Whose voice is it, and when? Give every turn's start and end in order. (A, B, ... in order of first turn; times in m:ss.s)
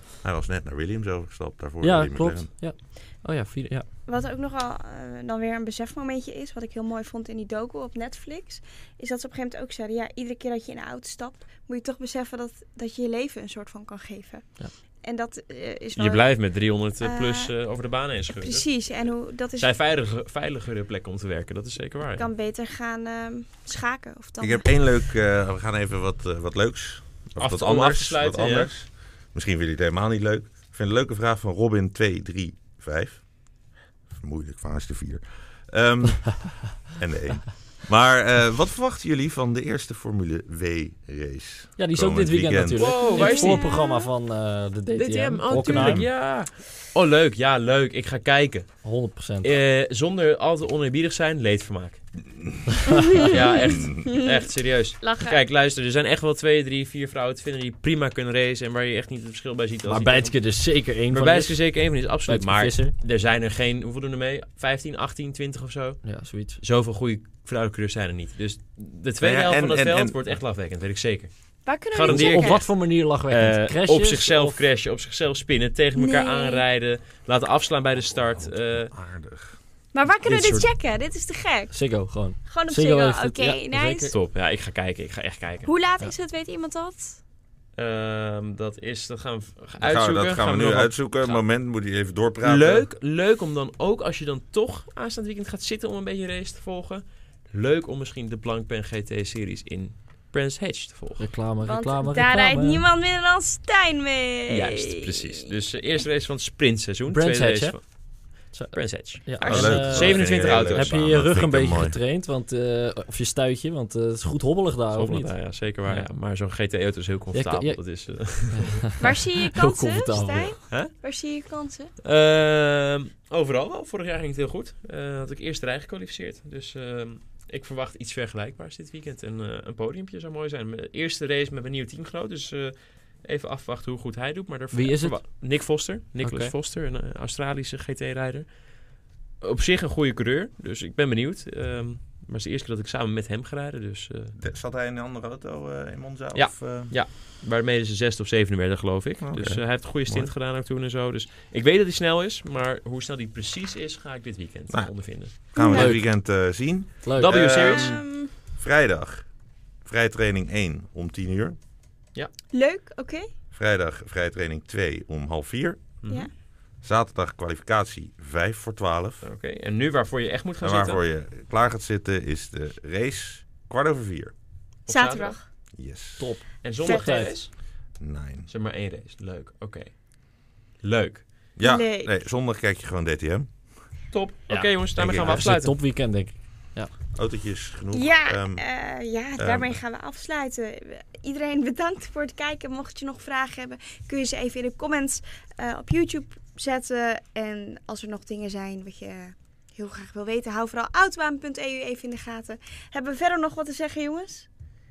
0:00.2-0:02.5 A
0:01.8-0:03.9 B
0:04.1-0:17.5 C
0:16.0-0:19.0 D
0:18.4-0:19.7 C
0:19.6-0:22.3 D
0:22.2-0:24.7 C
0:24.4-0:33.3 A
0:27.4-0:28.7 D
0:34.1-0:43.0 A
0:41.8-0:46.0 B
0:42.8-0:43.7 D
0:43.0-0:44.1 C
0:45.0-0:48.9 D
0:45.8-0:46.1 A
0:48.8-0:49.5 B
0:49.4-0:52.0 D
0:52.8-0:53.2 B
0:53.1-0:54.4 C
0:53.2-1:18.9 D
0:55.0-0:55.4 C
0:59.8-1:03.0 B
1:06.0-1:06.6 B
1:09.2-1:10.2 A
1:11.7-1:12.6 C
1:12.1-1:14.6 B
1:16.0-1:16.6 C
1:18.1-1:19.6 A
1:19.9-1:21.8 C
1:20.2-1:20.7 D
1:21.7-1:24.2 B
1:22.5-1:24.1 C
1:24.1-1:25.7 D
1:25.7-1:27.2 C
1:27.8-1:31.4 D
1:29.8-1:32.9 A
1:32.4-1:41.3 D
1:41.2-1:42.8 B
1:41.6-1:45.4 C
1:44.5-1:51.0 D
1:47.1-1:56.1 B
1:49.4-1:50.0 C
1:49.4-1:52.0 A
1:55.0-1:58.8 D
1:57.3-2:00.6 B
1:59.0-2:01.9 C
2:02.0-2:18.5 D
2:14.7-2:15.6 B
2:16.2-2:16.5 B
2:19.4-2:24.4 D
2:24.4-2:27.0 A
2:26.4-2:35.8 D
2:29.2-2:30.3 A
2:34.7-2:39.3 A
2:35.6-2:35.9 C
2:35.6-2:36.1 B
2:37.0-2:37.8 B
2:37.2-2:38.0 D
2:37.5-2:38.3 C
2:39.8-2:41.6 A
2:42.5-2:43.3 C
2:43.5-2:46.0 A
2:46.0-2:46.3 D
2:46.8-2:49.2 A
2:49.2-2:51.0 D
2:50.6-2:54.3 A
2:54.9-2:55.4 D
2:54.9-2:55.4 C
2:55.8-2:56.3 A
2:56.2-2:57.3 B
2:56.6-2:57.6 D
2:56.8-2:57.3 C
2:58.0-2:58.5 A
2:58.5-3:01.3 D
3:01.6-3:03.5 A
3:01.6-3:02.1 C
3:04.1-3:05.7 D
3:04.5-3:06.9 B
3:05.0-3:05.5 A
3:07.2-3:08.6 A
3:07.9-3:24.5 C
3:09.4-3:09.8 A